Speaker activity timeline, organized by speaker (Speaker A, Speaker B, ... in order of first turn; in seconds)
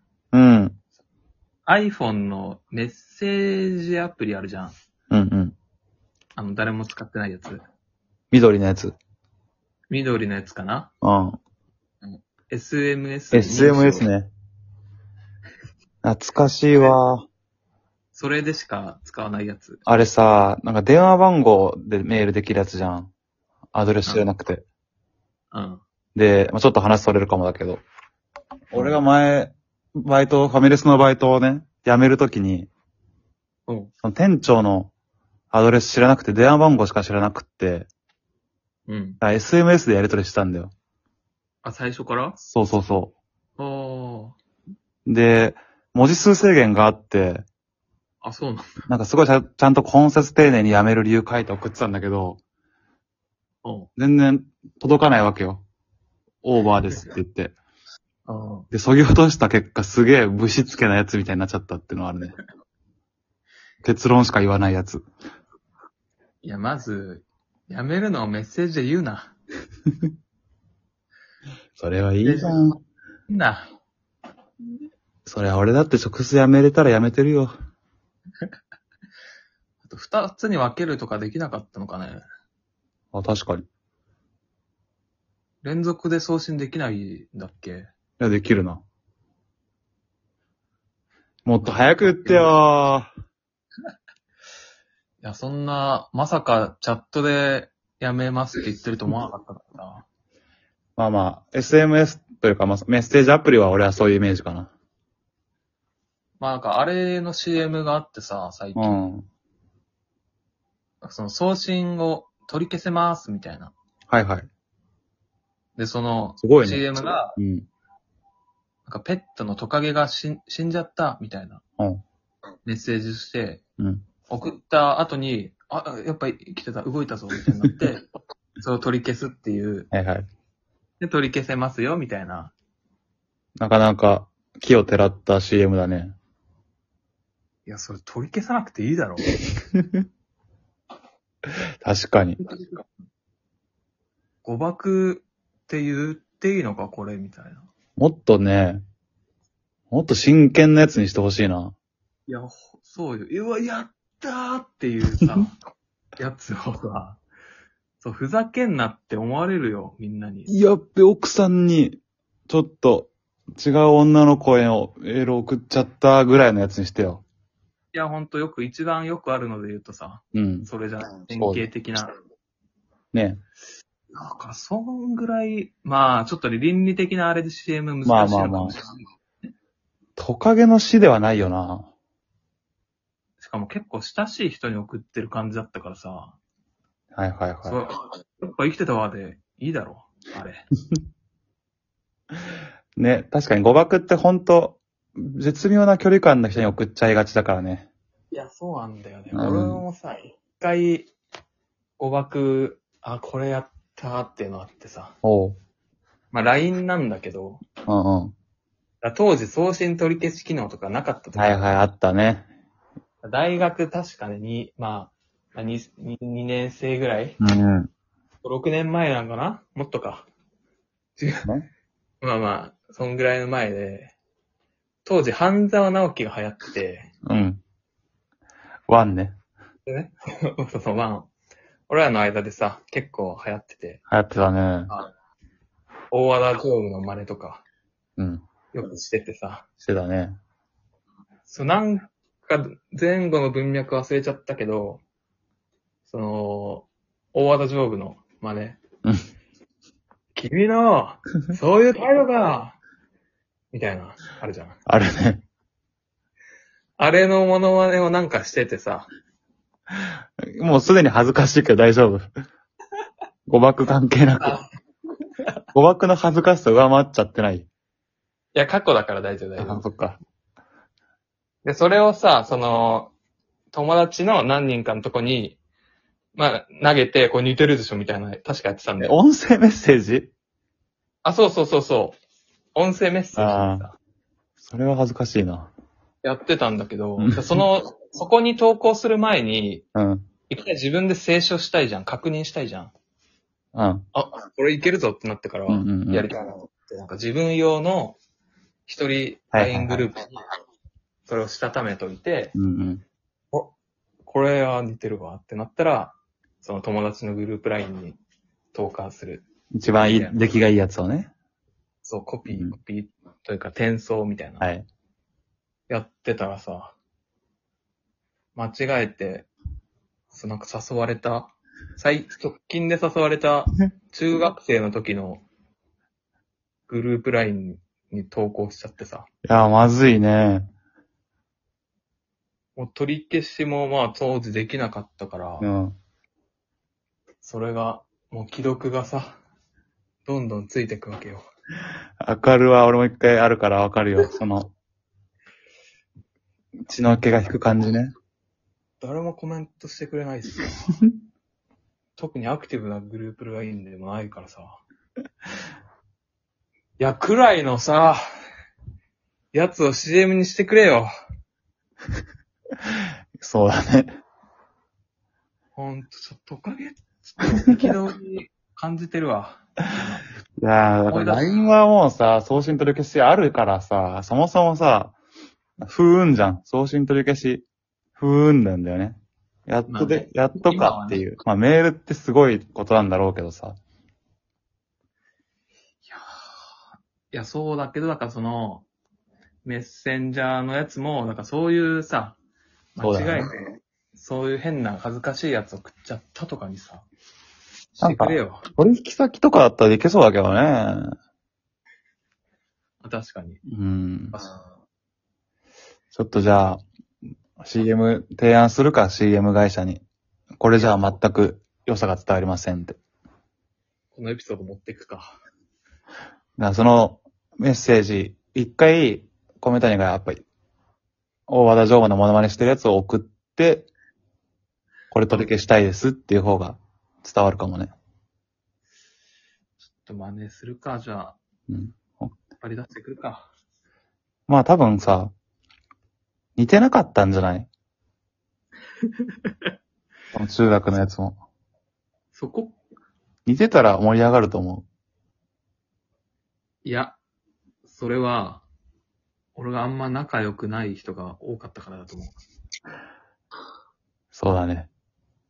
Speaker A: 0.3-0.8, 5.1-5.5, 8.3-9.0, 11.0-11.4, 13.3-14.3, 16.0-17.2, 19.9-23.1, 23.7-24.6, 26.1-27.8, 28.7-32.7, 34.0-34.9, 35.5-37.9, 39.2-40.7, 42.4-43.1, 45.0-47.5, 48.9-52.4, 54.0-55.6, 56.4-57.5, 58.7-62.4, 63.8-65.0, 71.8-72.8, 75.2-77.5, 83.1-83.7, 88.2-88.8, 91.5-93.1, 101.0-104.7, 108.8-109.3, 114.1-114.5, 116.4-116.8, 117.4-117.7, 123.8-124.0, 129.9-130.2, 133.6-136.2, 139.8-140.0, 141.8-142.4, 148.0-148.8, 149.9-151.8, 160.5-167.2, 170.3-170.7, 171.2-171.7, 173.1-173.4, 178.0-178.8, 180.2-181.9, 187.1-187.8, 193.0-197.9, 199.3-199.8, 205.2-205.6, 207.9-208.3, 211.3-212.5, 217.4-217.9, 227.2-227.6, 228.9-229.4, 234.1-234.9, 238.2-238.4, 239.8-240.4, 254.9-255.4, 259.9-262.3, 263.5-264.6, 265.7-267.7, 269.6-270.2, 279.0-280.3, 283.4-283.9, 284.6-285.7, 287.2-287.6, 289.9-290.2, 293.8-294.1, 295.7-296.3, 299.5-300.1, 302.6-303.0, 309.7-311.3, 312.5-312.8, 314.6-314.9, 329.4-330.7, 335.6-336.0, 342.2-344.7, 346.9-348.1, 363.4-364.1, 370.6-375.2, 375.8-377.6, 378.2-383.8, 393.0-393.4, 398.0-401.1, 403.6-404.4, 406.1-406.8, 407.6-410.1, 410.6-413.0, 416.6-420.4, 421.5-423.9, 425.1-427.9, 431.7-432.4, 434.5-435.3, 436.6-437.7, 440.3-441.4, 443.4-444.9, 454.3-454.9
Speaker B: 1.7-4.7, 6.4-7.6, 9.9-10.9, 12.5-14.1, 18.1-19.8, 25.5-25.8, 28.7-29.0, 33.7-33.9, 38.9-39.2, 41.6-42.4, 43.6-44.4, 48.2-48.7, 53.6-53.9, 58.3-58.7, 66.4-69.3, 72.2-72.6, 73.3-73.7, 79.8-82.2, 85.6-87.9, 91.6-92.5, 95.2-100.1, 106.4-109.1, 111.0-113.7, 115.8-117.4, 118.9-121.6, 122.6-123.6, 124.3-128.0, 128.6-129.9, 131.0-132.5, 137.7-139.3, 144.4-147.7, 152.3-155.5, 156.2-157.2, 158.0-160.5, 167.9-172.1, 174.1-178.9, 183.4-186.4, 187.7-190.7, 198.3-201.1, 202.0-205.2, 206.3-207.6, 209.0-211.7, 213.2-217.4, 218.4-220.3, 221.2-221.5, 222.2-224.1, 225.0-227.1, 229.8-231.3, 231.9-234.0, 236.1-237.6, 238.7-239.7, 241.5-245.0, 246.1-248.8, 250.3-252.8, 253.7-254.8, 257.0-259.1, 268.6-269.9, 271.6-273.1, 273.7-275.6, 276.4-279.1, 281.2-282.2, 282.8-283.9, 286.2-289.9, 290.5-292.9, 294.1-298.2, 298.9-300.3, 301.2-302.5, 304.2-308.2, 308.7-310.6, 312.0-314.6, 315.9-316.9, 318.6-319.5, 320.3-325.4, 326.9-329.3, 332.8-335.7, 337.4-339.4, 340.2-341.4, 349.0-351.0, 352.2-354.8, 357.0-358.2, 359.5-361.1, 365.8-370.2, 371.1-371.6, 379.9-381.2, 387.3-388.9, 389.6-392.4, 392.9-393.6, 394.1-397.1, 397.9-398.6, 403.0-403.6, 410.8-411.1, 414.1-415.4, 429.9-431.4, 432.6-433.5, 439.2-439.7, 442.3-442.8, 446.8-447.2, 447.9-448.6, 449.6-452.4